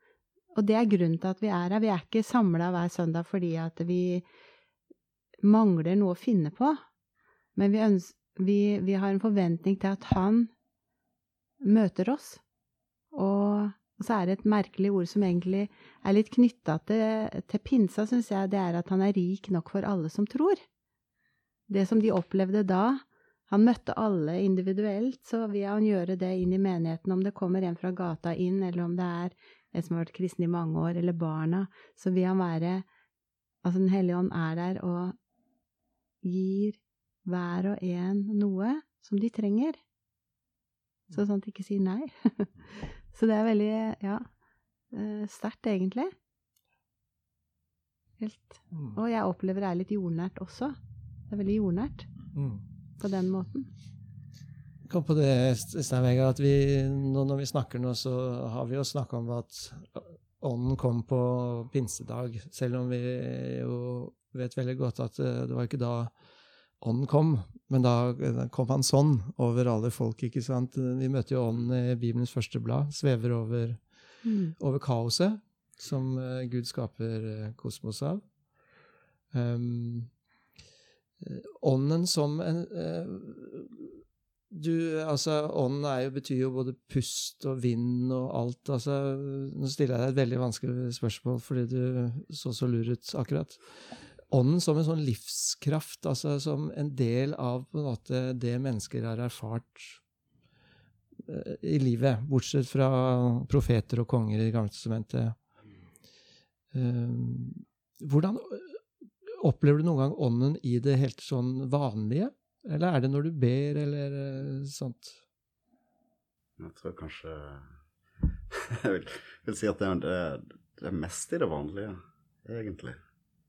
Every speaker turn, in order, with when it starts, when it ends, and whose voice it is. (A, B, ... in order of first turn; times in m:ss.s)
0:00.5-0:04.2 A
0:05.4-0:06.8 A
0:07.6-0:10.5 A
0:11.6-0:12.4 A
0:13.1-0:20.6 A
0:21.7-0:32.8 A
0:33.6-0:35.2 A
0:36.2-0:39.8 A
0:41.1-0:44.3 A
0:44.9-0:46.1 A
0:48.2-0:50.8 A
0:48.7-0:49.0 B
0:51.3-0:52.1 A
0:52.3-0:52.6 B
0:53.0-0:53.7 A
0:54.8-1:06.1 B
1:06.8-1:13.8 B
1:14.2-1:14.5 A
1:14.6-1:18.2 B
1:19.3-1:20.1 B
1:21.2-1:40.0 B
1:41.2-1:45.4 B
1:46.7-1:55.2 B
1:56.6-1:57.7 C
1:58.5-2:03.0 C